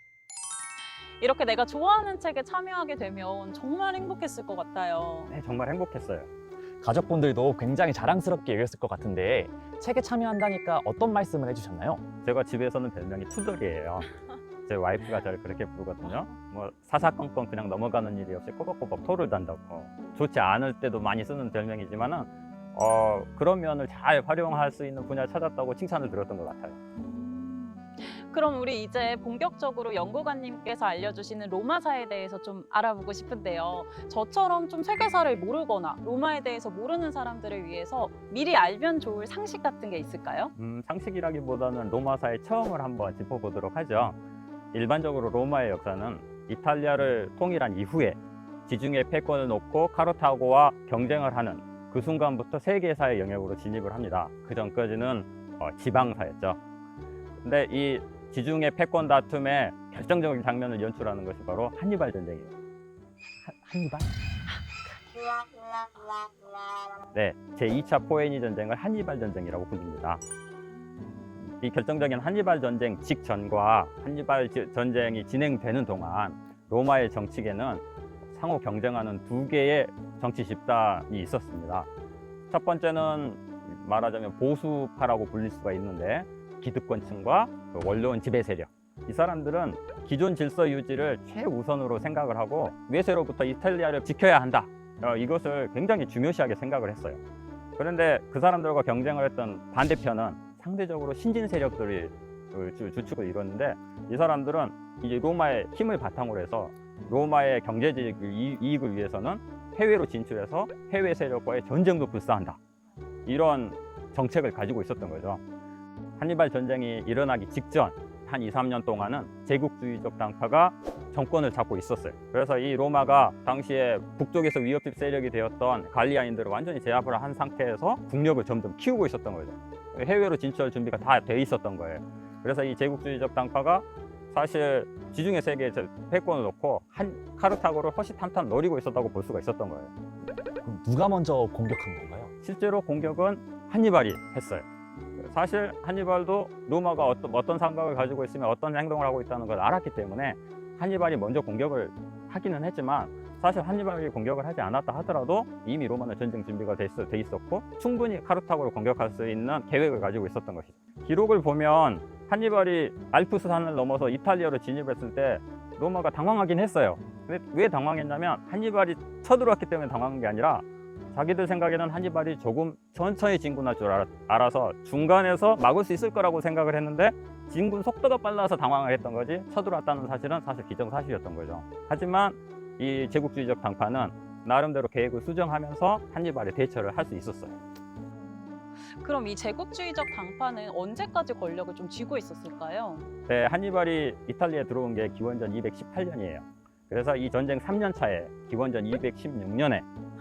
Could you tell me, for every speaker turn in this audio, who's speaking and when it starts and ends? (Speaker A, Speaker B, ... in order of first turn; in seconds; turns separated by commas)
Speaker A: 1.2-5.3, Speaker B: 5.3-6.3, Speaker C: 6.8-12.0, Speaker B: 12.2-14.1, Speaker B: 14.7-26.8, Speaker A: 27.0-40.5, Speaker B: 40.5-44.1, Speaker B: 44.7-56.6, Speaker B: 57.4-62.5, Speaker B: 63.5-64.1, Speaker B: 67.1-70.2, Speaker A: 70.8-71.3, Speaker B: 71.4-81.9, Speaker B: 82.5-97.2, Speaker B: 97.8-112.6, Speaker B: 113.2-115.4, Speaker B: 116.2-139.9, Speaker C: 140.6-142.3, Speaker B: 142.4-144.7, Speaker B: 145.2-187.6, Speaker A: 188.1-193.1, Speaker B: 193.3-199.8